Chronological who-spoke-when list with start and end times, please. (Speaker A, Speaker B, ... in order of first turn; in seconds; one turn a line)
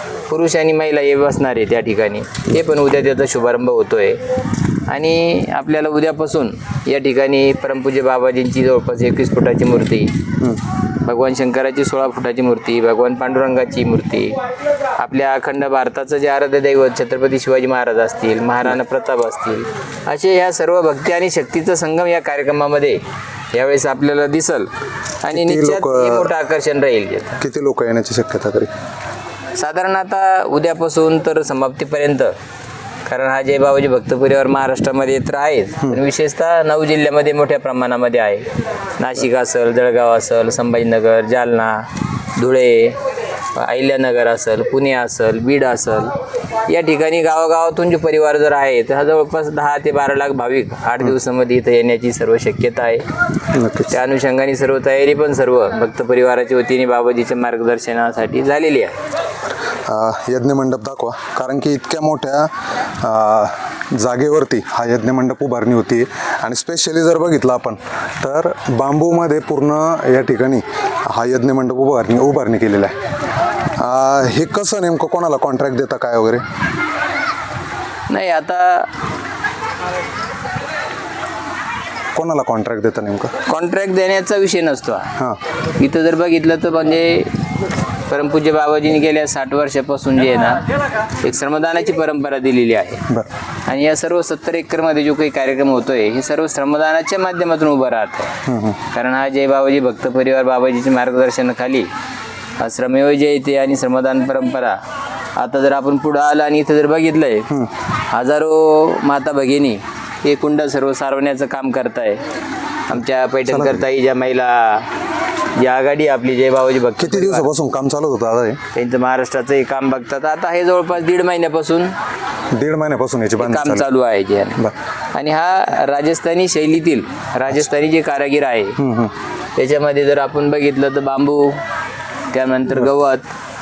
Speaker A: 0.3-4.2
Speaker A: 4.9-10.1
Speaker A: 11.0-14.4
Speaker A: 15.0-23.0
Speaker A: 23.5-24.7
Speaker A: 25.2-27.4
Speaker B: 25.3-26.3
Speaker B: 27.4-28.7
Speaker A: 29.6-32.3
Speaker A: 33.1-38.5
Speaker A: 39.0-43.0
Speaker A: 43.6-46.1
Speaker A: 46.7-53.1
Speaker B: 53.5-53.9
Speaker A: 53.9-59.0
Speaker B: 59.7-62.5
Speaker B: 63.0-72.9
Speaker B: 73.8-76.4
Speaker A: 78.1-78.9
Speaker B: 82.2-83.3
Speaker A: 83.5-85.1
Speaker A: 85.8-87.3
Speaker A: 88.1-90.6
Speaker A: 91.2-93.0
Speaker A: 93.7-98.3
Speaker B: 98.5-98.8
Speaker A: 98.9-101.9
Speaker A: 102.6-104.8
Speaker A: 105.4-107.5
Speaker A: 108.1-112.2
Speaker A: 112.9-114.9
Speaker B: 113.5-113.8
Speaker A: 115.6-117.5
Speaker B: 117.0-118.6
Speaker A: 118.8-121.9
Speaker B: 122.5-123.9
Speaker A: 123.4-128.8
Speaker B: 128.8-129.1
Speaker A: 129.6-131.6
Speaker A: 132.3-133.3